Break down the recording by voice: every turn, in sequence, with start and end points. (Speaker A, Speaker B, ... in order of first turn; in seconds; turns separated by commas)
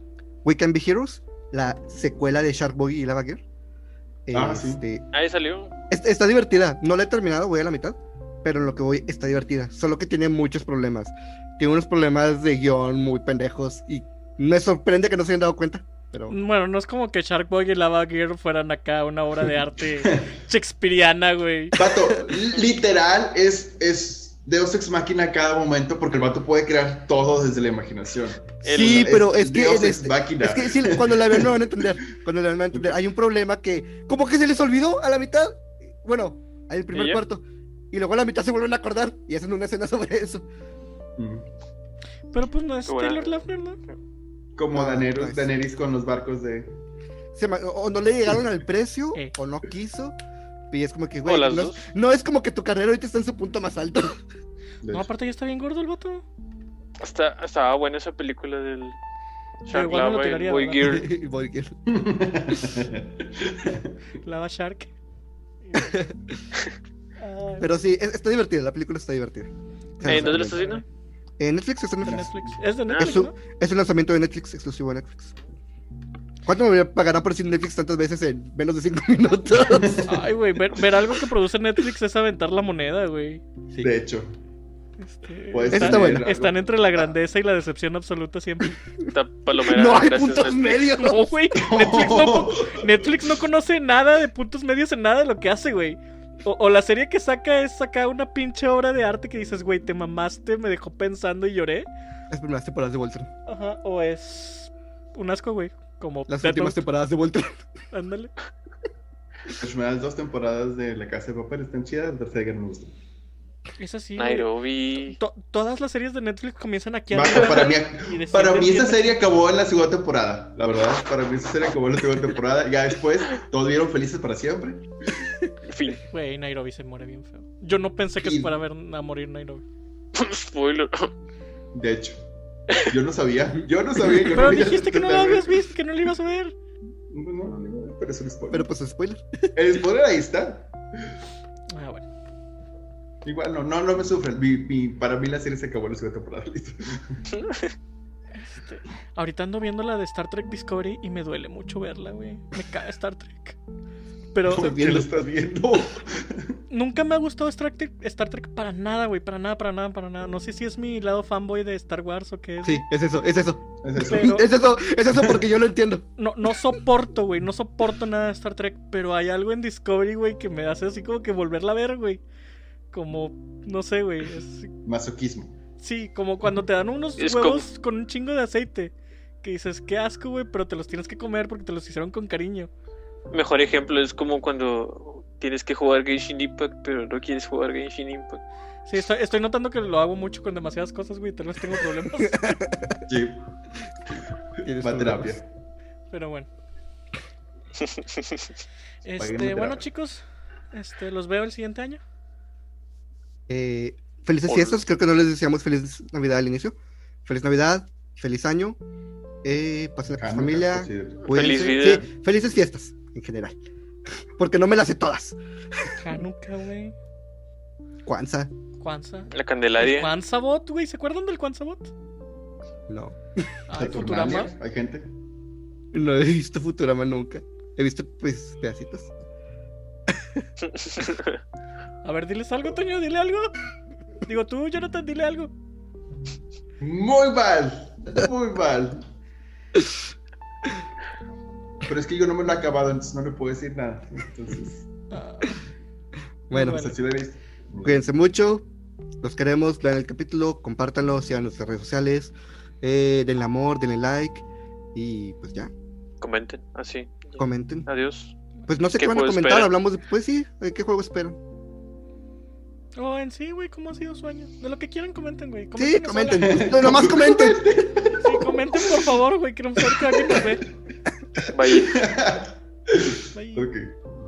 Speaker A: 0.4-3.4, Speaker A: 4.3-5.0, Speaker B: 4.3-4.8, Speaker C: 5.1-5.7, Speaker A: 5.9-16.4, Speaker D: 16.3-21.8, Speaker B: 21.7-31.8, Speaker C: 28.6-29.2, Speaker A: 28.6-40.5, Speaker C: 36.9-37.2, Speaker B: 41.2-41.5, Speaker D: 42.3-43.8, Speaker C: 42.9-43.4, Speaker B: 44.6-46.7, Speaker A: 44.7-45.5, Speaker A: 47.4-50.1, Speaker A: 50.7-54.2, Speaker C: 51.2-51.9, Speaker B: 54.8-55.1, Speaker D: 54.9-56.2, Speaker C: 57.0-59.0, Speaker D: 59.7-61.0, Speaker C: 59.7-61.1, Speaker A: 60.8-61.8, Speaker B: 61.9-63.9, Speaker D: 64.2-64.9, Speaker D: 65.6-66.1, Speaker A: 65.8-66.0, Speaker D: 67.2-67.8, Speaker A: 67.6-70.7, Speaker D: 70.0-70.8, Speaker C: 70.0-70.8, Speaker A: 71.4-72.3, Speaker D: 72.0-73.3, Speaker B: 72.1-72.4, Speaker C: 72.9-73.2, Speaker A: 72.9-75.3, Speaker A: 76.5-80.1, Speaker B: 79.7-80.1, Speaker D: 80.0-83.4, Speaker B: 83.8-84.3, Speaker D: 85.0-88.8, Speaker B: 85.5-87.1, Speaker A: 85.7-86.3, Speaker C: 89.1-90.9, Speaker A: 89.6-91.3, Speaker D: 90.9-101.9, Speaker B: 91.5-93.0, Speaker A: 102.3-103.3, Speaker D: 103.5-106.8, Speaker A: 106.3-107.6, Speaker D: 107.9-108.3, Speaker B: 109.6-112.9, Speaker D: 113.8-114.5, Speaker C: 114.2-115.2, Speaker D: 115.1-119.2, Speaker B: 117.1-124.9, Speaker C: 125.7-126.0, Speaker D: 126.1-129.6, Speaker B: 128.2-128.5, Speaker C: 130.1-131.1, Speaker B: 131.7-132.2, Speaker B: 132.7-135.6, Speaker D: 134.3-136.6, Speaker B: 137.1-138.7, Speaker A: 138.5-139.2, Speaker B: 139.6-140.7, Speaker D: 141.7-142.1, Speaker B: 143.2-147.2, Speaker C: 147.3-147.7, Speaker D: 148.4-153.6, Speaker D: 154.3-155.0, Speaker B: 154.5-156.6, Speaker A: 154.6-155.1, Speaker D: 156.7-162.8, Speaker A: 162.6-166.1, Speaker B: 163.8-164.3, Speaker D: 164.0-164.6, Speaker D: 166.2-172.2, Speaker D: 172.9-174.7, Speaker B: 174.8-175.6, Speaker D: 175.8-182.7, Speaker C: 177.2-177.7, Speaker C: 183.3-188.4, Speaker D: 188.9-192.6, Speaker A: 192.3-192.9, Speaker B: 193.1-193.4, Speaker A: 194.6-195.4, Speaker B: 194.8-195.5, Speaker D: 196.1-196.5, Speaker C: 197.8-198.5, Speaker D: 199.0-200.2, Speaker B: 199.2-199.9, Speaker D: 200.7-202.0, Speaker A: 203.5-208.8, Speaker C: 204.5-204.8, Speaker A: 209.4-213.6, Speaker B: 210.2-211.7, Speaker C: 211.2-212.1, Speaker A: 214.4-216.0, Speaker D: 216.0-216.9, Speaker A: 218.1-218.5, Speaker D: 218.8-221.9, Speaker C: 219.3-220.1, Speaker A: 222.9-223.5, Speaker D: 223.7-224.5, Speaker B: 223.8-225.1, Speaker A: 225.9-229.1, Speaker A: 230.1-230.4, Speaker C: 230.6-231.4, Speaker D: 232.0-233.5, Speaker D: 234.2-235.5, Speaker B: 236.8-239.0, Speaker B: 241.8-244.8, Speaker D: 245.1-245.6, Speaker A: 246.5-246.9, Speaker D: 246.5-246.9, Speaker B: 246.7-248.0, Speaker A: 247.8-248.7, Speaker A: 249.2-255.7, Speaker C: 256.2-258.4, Speaker A: 257.4-257.9, Speaker A: 258.7-261.4, Speaker C: 258.9-259.7, Speaker D: 263.0-266.8, Speaker A: 265.8-267.8, Speaker B: 266.4-268.9, Speaker D: 268.2-270.6, Speaker B: 271.4-273.9, Speaker C: 271.5-272.0, Speaker D: 273.3-273.7